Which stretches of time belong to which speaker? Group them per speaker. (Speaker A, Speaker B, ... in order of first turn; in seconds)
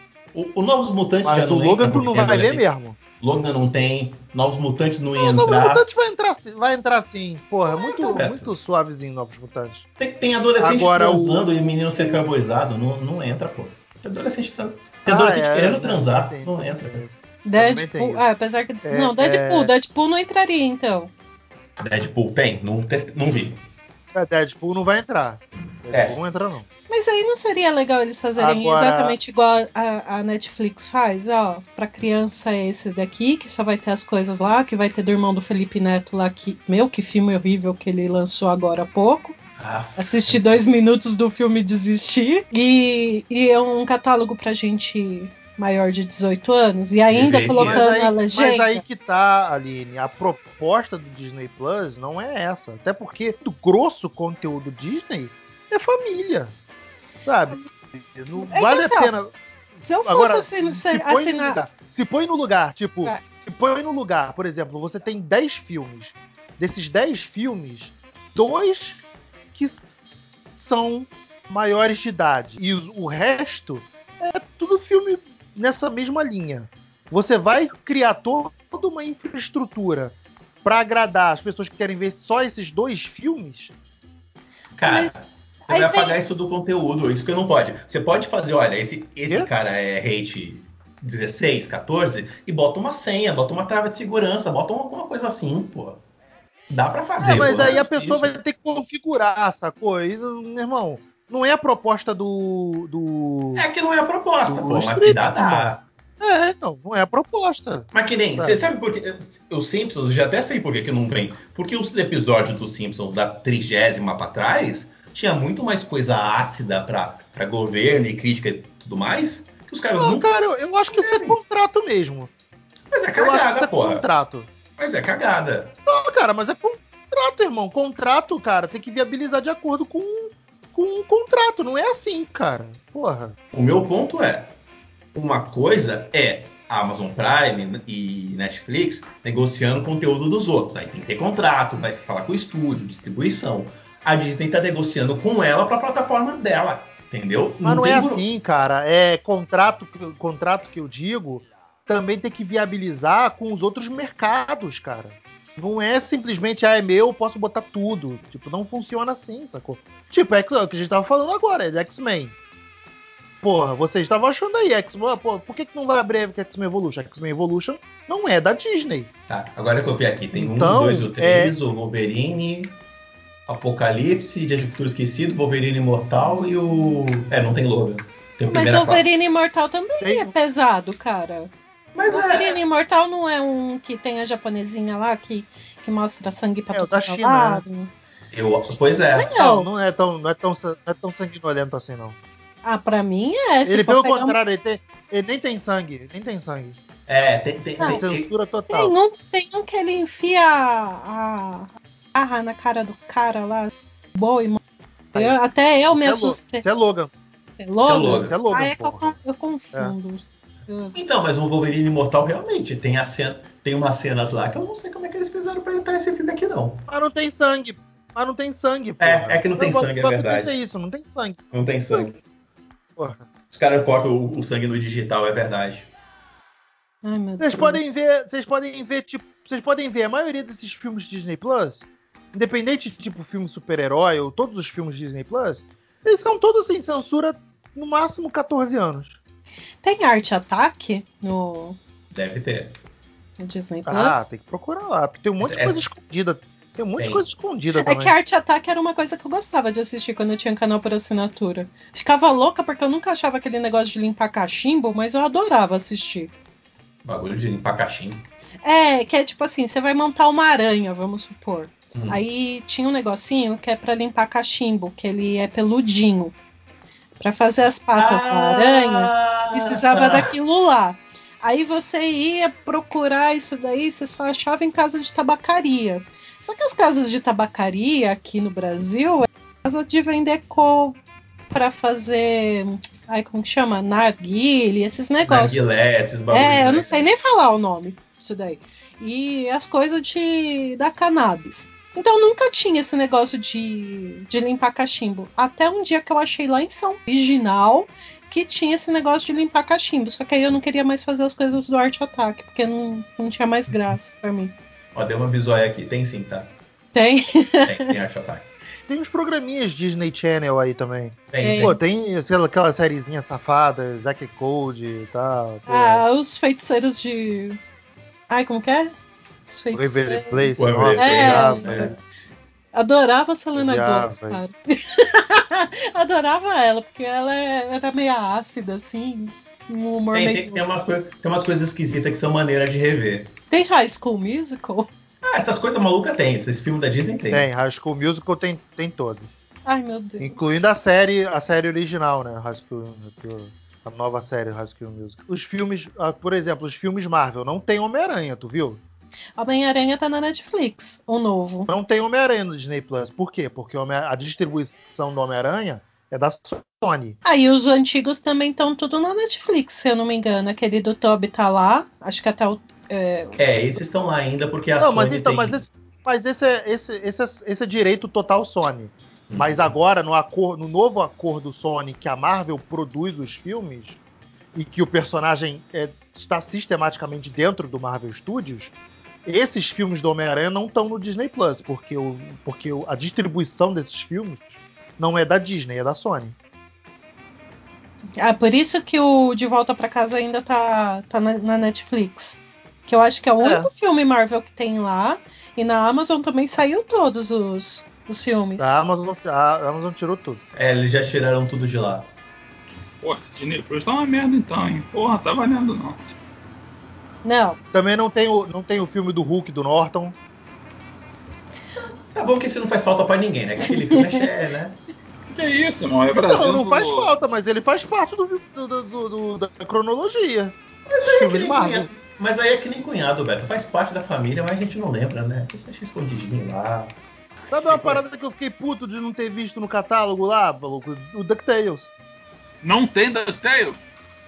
Speaker A: 0.3-2.6, 3.2-5.8, 7.7-8.5, 10.0-17.0, 21.8-23.6, 25.9-26.2, 39.6-40.6, 47.1-47.8, 84.8-96.0, 96.7-98.3, 103.6-105.8, 107.9-120.3, 120.9-121.4, 122.9-124.1, 124.8-125.8, 133.5-134.5, 135.1-148.2, 169.3-172.8, 173.5-179.1, 181.9-182.6, 188.3-189.4, 197.1-198.3, 207.8-208.4, 210.9-216.8, 219.0-220.5, 221.5-222.2, 223.5-225.9, 242.1-242.8, 245.4-245.8, 247.0-247.3, 257.1-258.2, 261.9-262.2, 268.0-270.3, 285.2-287.1, 304.9-306.5, 307.7-308.5, 311.3-311.8, 320.6-322.0, 330.1-333.3, 335.3-337.5, 363.4-365.6, 369.3-369.7, 400.6-402.1, 411.8-414.8, 420.9-426.9, 427.7-428.0
Speaker B: 1.2-3.0, 5.2-9.9, 10.6-12.2, 15.1-18.2, 18.8-19.7, 24.1-26.7, 28.4-29.2, 47.5-56.5, 57.2-69.0, 69.5-69.9, 70.6-83.7, 97.2-103.7, 104.5-108.7, 120.0-122.3, 123.2-124.5, 125.9-133.4, 147.6-162.3, 163.4-169.1, 170.3-171.6, 180.0-180.3, 186.7-187.6, 189.3-192.2, 193.7-196.8, 197.8-198.9, 205.1-207.1, 208.0-209.2, 216.9-222.2, 223.0-223.2, 227.4-239.2, 243.9-248.2, 308.9-316.0, 319.7-321.9, 323.6-324.4, 337.3-339.3, 340.2-348.8, 351.7-357.2, 364.8-374.0, 374.6-378.7, 379.3-386.4, 393.4-393.7, 398.6-400.4, 407.7-410.1, 416.1-421.9, 427.5-431.9
Speaker C: 17.4-21.1, 26.9-39.4, 40.0-48.8, 58.4-59.1, 59.8-61.6, 84.8-85.2, 85.7-86.2, 178.5-181.5, 182.1-187.9, 189.2-189.7, 192.6-194.4, 198.7-204.6, 205.1-206.6, 207.6-211.0, 227.0-228.1, 239.8-241.8, 243.4-244.3, 247.8-256.3, 258.6-266.4, 267.2-281.0, 281.5-285.6, 286.3-304.6, 306.9-307.9, 311.4-311.8, 315.7-317.6, 318.3-318.9, 319.5-320.4, 321.0-321.9, 322.7-330.6, 333.5-334.9, 339.7-340.6, 349.4-351.7, 357.2-363.4, 388.2-398.8, 407.2-407.6, 413.7-414.2
Speaker D: 403.0-406.1, 415.3-417.1, 432.6-433.8